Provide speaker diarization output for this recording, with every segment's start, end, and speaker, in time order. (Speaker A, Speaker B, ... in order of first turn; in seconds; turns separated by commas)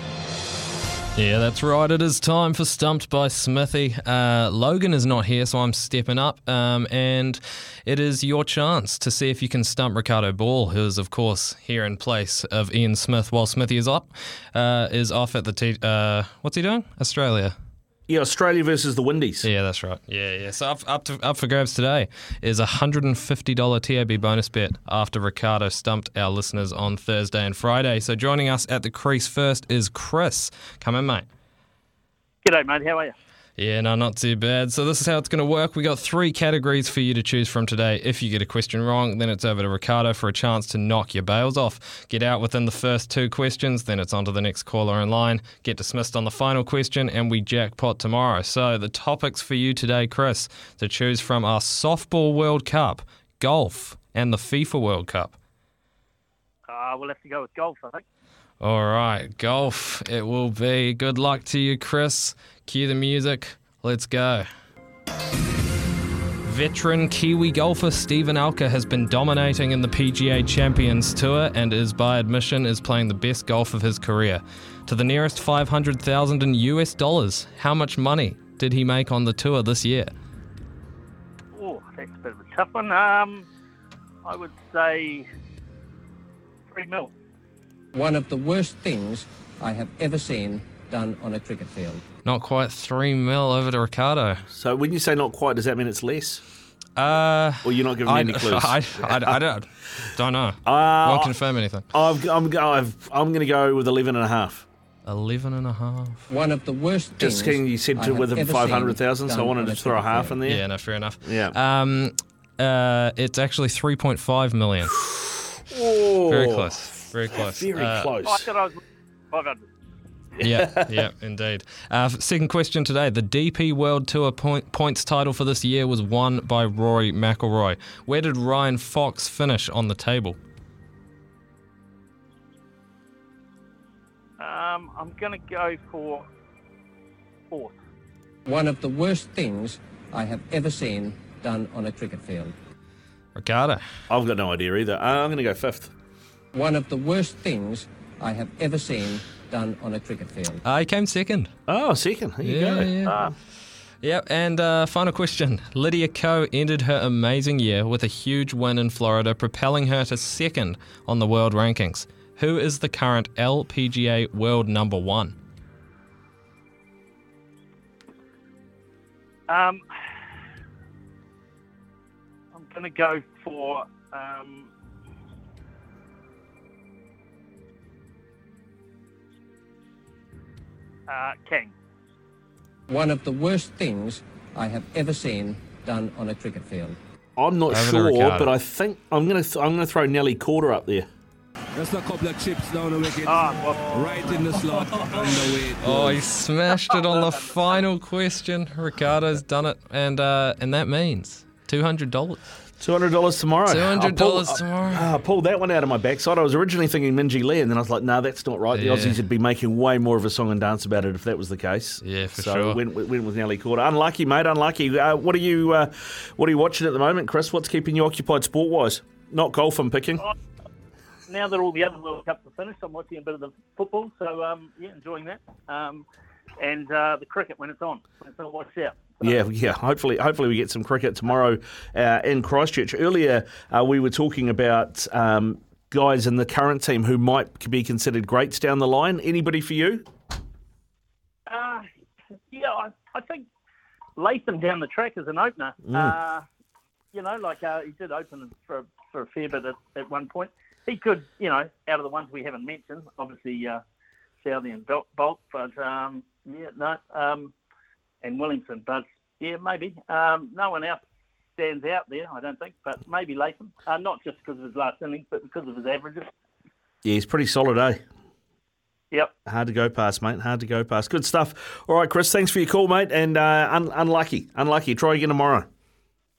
Speaker A: 1.1-17.5, Speaker B: 18.1-19.5, Speaker A: 19.4-31.3, Speaker C: 32.4-33.1, Speaker A: 33.6-55.3, Speaker C: 56.7-58.0, Speaker A: 58.6-64.4, Speaker A: 66.4-80.1, Speaker C: 81.5-83.5, Speaker C: 84.2-85.2, Speaker C: 86.7-87.1, Speaker D: 87.9-92.0, Speaker A: 92.2-94.4, Speaker B: 94.5-96.4, Speaker A: 97.0-101.9, Speaker B: 97.6-99.4, Speaker B: 100.7-101.4, Speaker B: 101.9-104.7, Speaker A: 105.0-106.3, Speaker D: 106.3-110.4, Speaker B: 107.2-110.6, Speaker A: 110.4-115.0, Speaker B: 111.2-111.6, Speaker B: 115.7-116.8, Speaker A: 116.3-118.1, Speaker B: 117.4-118.5, Speaker C: 118.2-118.8, Speaker C: 119.3-119.7, Speaker A: 120.4-130.4, Speaker C: 134.4-136.2, Speaker C: 137.5-137.8, Speaker D: 138.4-142.5, Speaker A: 143.3-143.8, Speaker B: 144.1-145.9, Speaker D: 146.5-150.6, Speaker A: 150.6-151.5, Speaker B: 151.7-153.1, Speaker A: 152.4-153.2, Speaker C: 153.0-153.3, Speaker A: 154.0-165.3, Speaker C: 169.5-169.8, Speaker C: 172.5-174.7, Speaker C: 181.1-181.7, Speaker D: 182.9-187.0, Speaker B: 187.4-191.1, Speaker A: 187.7-188.5, Speaker E: 191.7-196.2, Speaker C: 193.2-194.6, Speaker A: 195.8-202.4, Speaker C: 196.9-197.8, Speaker B: 202.8-220.2, Speaker A: 203.7-205.2, Speaker A: 208.7-209.2, Speaker A: 212.0-212.8, Speaker C: 221.3-226.1, Speaker C: 226.6-229.4, Speaker B: 229.2-240.1, Speaker C: 241.5-241.8, Speaker C: 242.5-243.5, Speaker C: 244.2-246.4, Speaker B: 245.8-246.1, Speaker C: 247.1-253.8, Speaker C: 254.4-257.5, Speaker C: 258.2-261.0, Speaker C: 261.6-266.3, Speaker B: 267.0-268.0, Speaker B: 269.4-275.7